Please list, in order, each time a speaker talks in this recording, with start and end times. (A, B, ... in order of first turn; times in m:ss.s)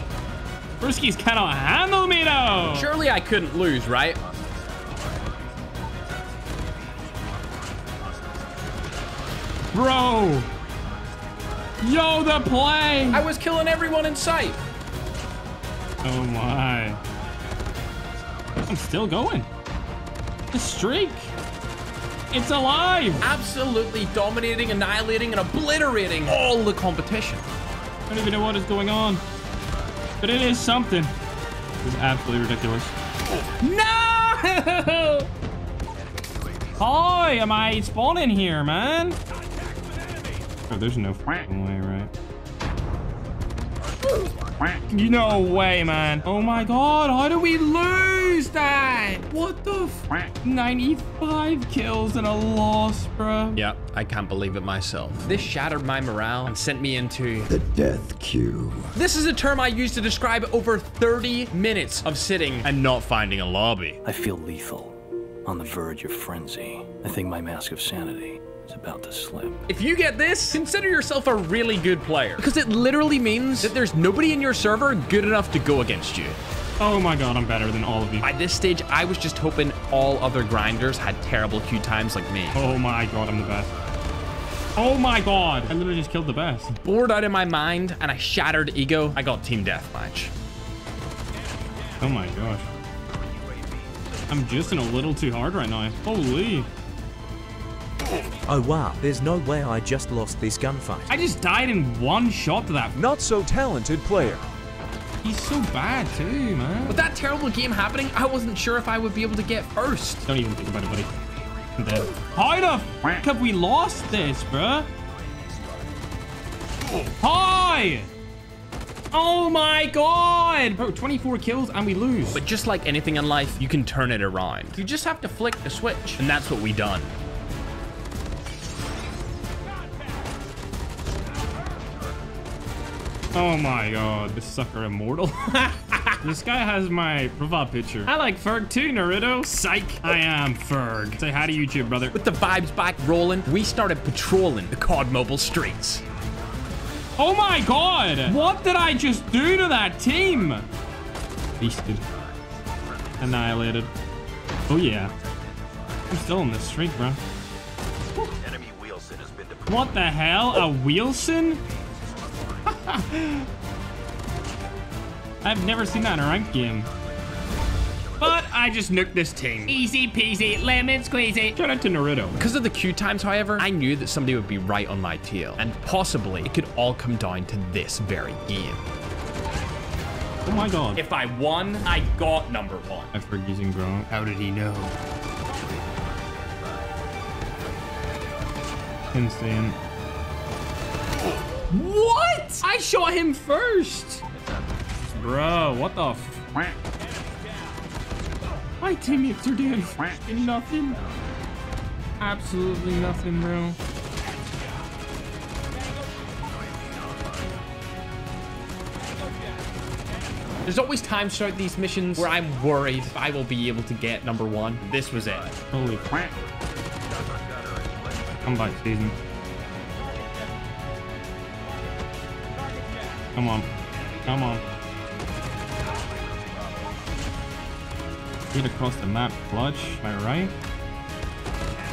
0:00.8-0:02.9 A
0:02.7-0:04.2 B
0:09.7-0:10.5 A
0:11.8-0:13.2 A
0:13.1-0:14.6 B
0:16.0-0:17.0 A
0:18.7-0:19.5 A
0:20.5-0:21.3 A
0:22.3-0:23.3 A
0:23.2-0:27.4 B
0:28.1-0:29.2 A
0:30.2-0:31.1 A
0:31.8-0:32.9 A
0:33.6-0:35.3 A
0:36.8-0:39.2 A
0:40.7-0:42.1 A
0:44.9-0:53.6 A
0:53.5-0:57.6 B
0:58.0-0:58.5 C
0:58.9-1:04.0 B
1:04.0-1:09.7 D
1:09.7-1:16.4 B
1:16.8-1:18.3 A
1:18.2-1:22.6 B
1:22.5-1:23.7 A
1:24.8-1:26.7 A
1:26.7-1:30.3 B
1:32.0-1:32.7 A
1:34.3-1:36.7 A
1:38.5-1:41.1 C
1:41.1-1:43.0 A
1:42.9-1:44.4 C
1:45.2-1:47.0 A
1:46.9-1:50.2 B
1:50.2-1:51.1 A
1:51.8-1:54.9 A
1:57.2-1:58.1 A
1:59.1-2:02.4 A
2:02.3-2:07.1 B
2:13.3-2:22.1 A
2:22.1-2:26.0 B
2:27.2-2:30.7 A
2:31.6-2:32.0 A
2:33.2-2:33.9 A
2:34.7-2:35.1 A
2:36.1-2:37.2 A
2:38.5-2:39.6 D
2:39.6-2:41.6 A
2:42.7-2:43.5 A
2:45.4-2:46.9 A
2:48.2-2:52.4 A
2:52.4-2:58.9 B
3:00.4-3:01.0 A
3:01.0-3:03.1 B
3:03.1-3:04.9 A
3:09.1-3:09.8 A
3:11.7-3:14.2 A
3:15.1-3:16.4 A
3:18.8-3:21.0 A
3:22.2-3:23.8 A
3:30.6-3:35.5 B
3:35.7-3:36.3 A
3:38.4-3:39.2 A
3:43.3-3:43.7 A
3:44.2-3:44.6 A
3:48.5-3:50.5 A